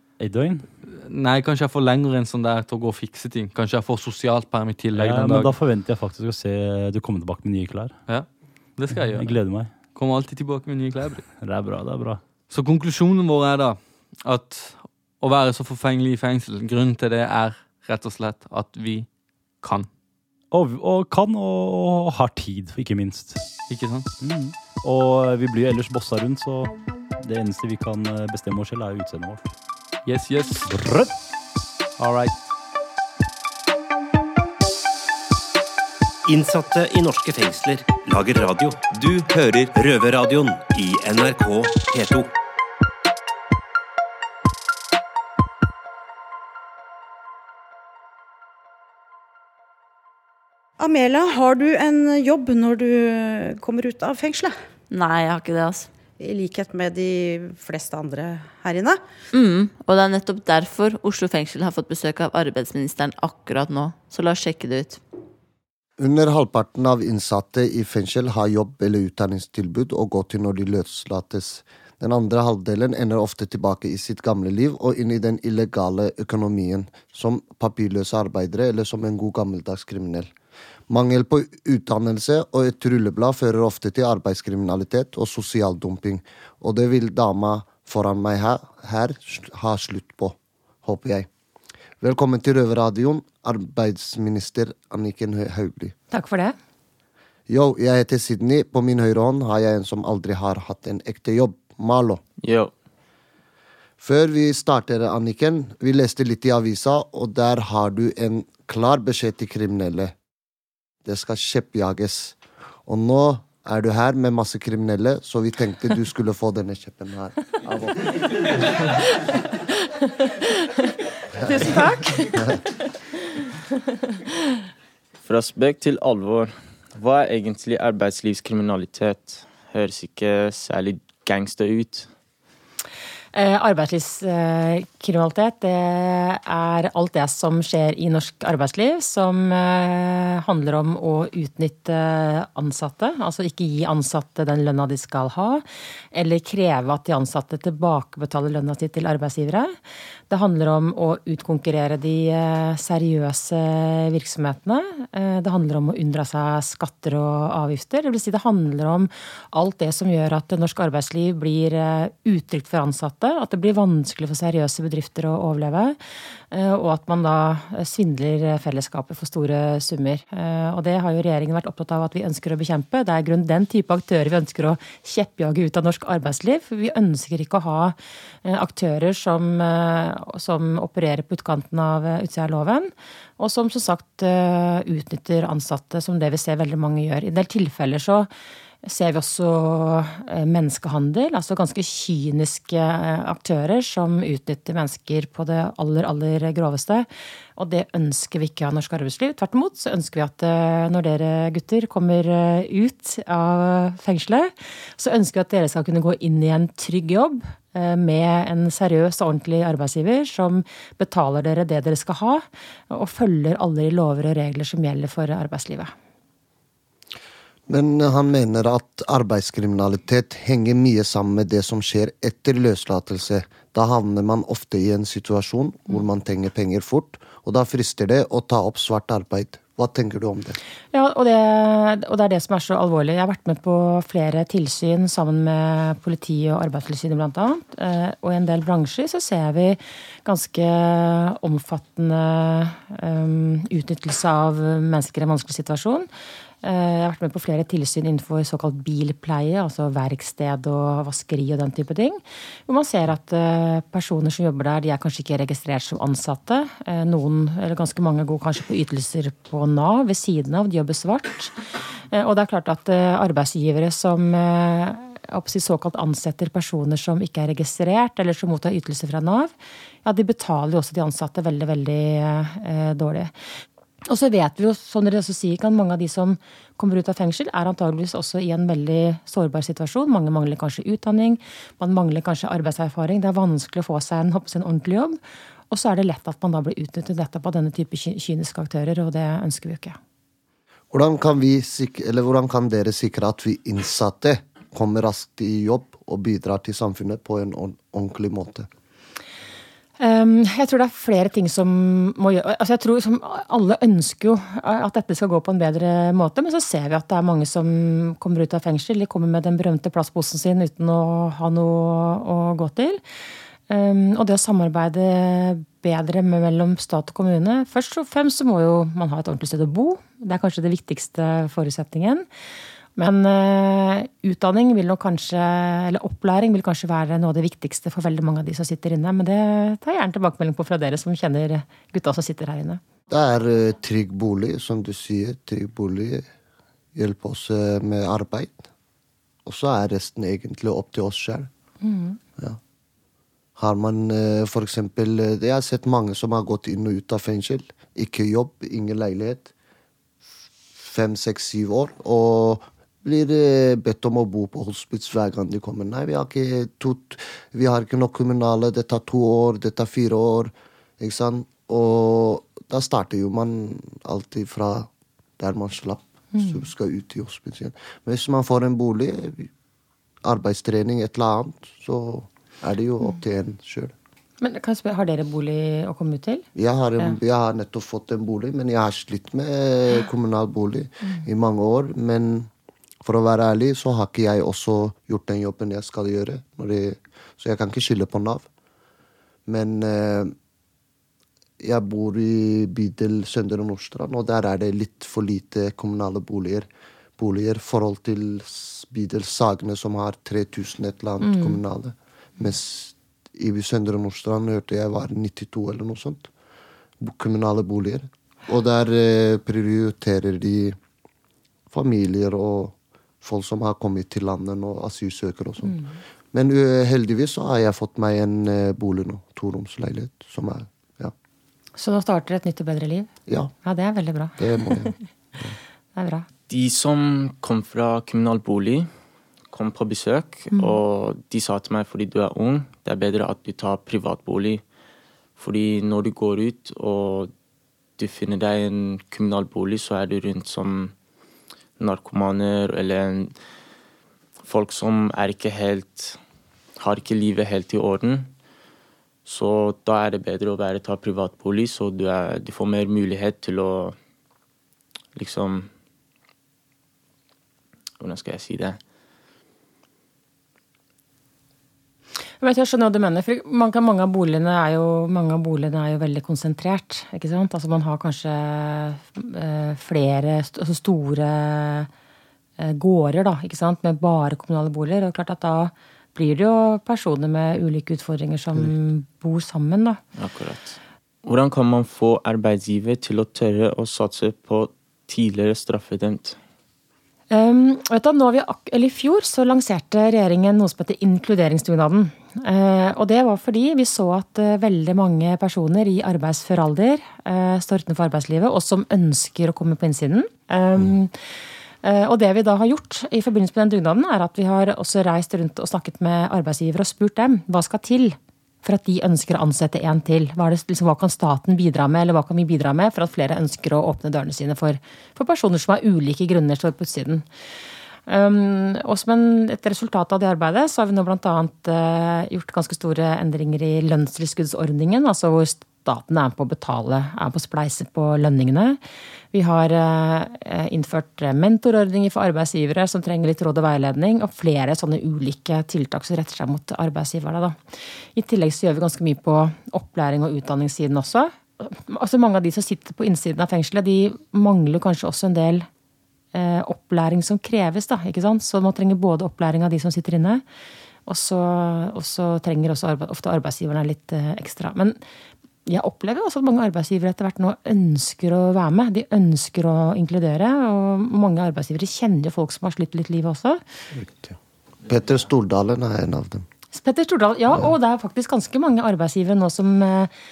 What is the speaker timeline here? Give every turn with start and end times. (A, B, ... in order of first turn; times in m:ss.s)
0:00.2-0:00.7 A
0:00.9-0:05.5 B
0:04.9-0:08.0 A
0:08.1-0:11.3 B
0:08.9-0:09.7 A
0:11.3-0:12.2 A
0:12.5-0:19.1 B
0:19.6-0:19.9 B
0:20.5-0:23.4 A
0:23.7-0:24.1 B
0:24.2-0:29.5 A
0:30.0-0:30.7 B
0:30.7-0:31.1 A
0:32.0-0:32.3 B
0:36.2-0:42.3 C
0:50.8-0:54.5 D
0:54.9-0:55.9 E
0:56.2-0:59.0 D
0:59.3-1:05.0 E
1:06.0-1:20.3 F
1:20.9-1:31.3 F
1:32.0-1:35.9 F
1:36.1-1:36.6 G
1:37.5-1:42.2 F
1:42.4-1:42.7 H
1:44.0-1:50.1 F
1:51.0-1:58.3 F
2:01.4-2:01.8 F
2:01.4-2:02.4 G
2:02.3-2:02.6 F
2:05.2-2:12.1 H
2:13.3-2:29.7 G
2:30.3-2:46.0 G
2:46.5-3:08.3 G
3:08.8-3:35.9 G
3:37.7-3:50.6 F
3:50.9-4:06.1 G
4:06.6-4:21.6 G
4:22.1-4:29.5 G
4:30.0-4:33.3 G
4:34.1-4:45.2 G
4:45.7-4:50.0 G
4:50.9-4:58.7 F
5:00.0-5:13.0 G
5:13.7-5:22.2 G
5:23.0-5:32.8 G
5:33.1-5:36.3 F
5:36.9-5:38.6 F
5:39.4-5:41.5 F
5:41.8-5:42.2 G
5:43.6-5:49.5 F
5:50.8-6:09.5 F
6:06.3-6:06.6 G
6:10.2-6:13.9 F
6:14.4-6:16.5 G
6:16.5-6:22.5 F
6:23.0-6:28.4 F
6:29.5-6:30.3 F
6:31.6-6:46.3 F
6:41.2-6:41.6 G
6:47.0-6:50.8 F
6:51.7-7:01.1 F
6:55.6-6:55.9 G
7:01.8-7:03.1 G
7:03.3-7:03.5 F
7:03.6-7:04.9 G
7:04.4-7:05.6 F
7:06.0-7:06.3 G
7:06.5-7:08.9 H
7:09.5-7:14.6 H
7:15.4-7:17.3 H
7:18.0-7:20.9 H
7:21.8-7:23.4 H
7:24.4-7:26.2 H
7:26.8-7:28.3 H
7:29.2-7:34.0 H
7:35.2-7:35.7 H
7:38.0-7:38.8 H
7:42.4-7:51.9 G
7:52.6-8:00.0 G
8:00.2-8:06.4 H
8:07.3-8:21.1 G
8:21.8-8:37.2 G
8:38.1-8:48.8 G
8:49.3-8:57.6 G
8:58.1-9:05.7 G
9:06.3-9:10.4 G
9:11.1-9:15.0 G
9:15.6-9:23.6 G
9:23.9-9:26.4 F
9:26.7-9:30.1 G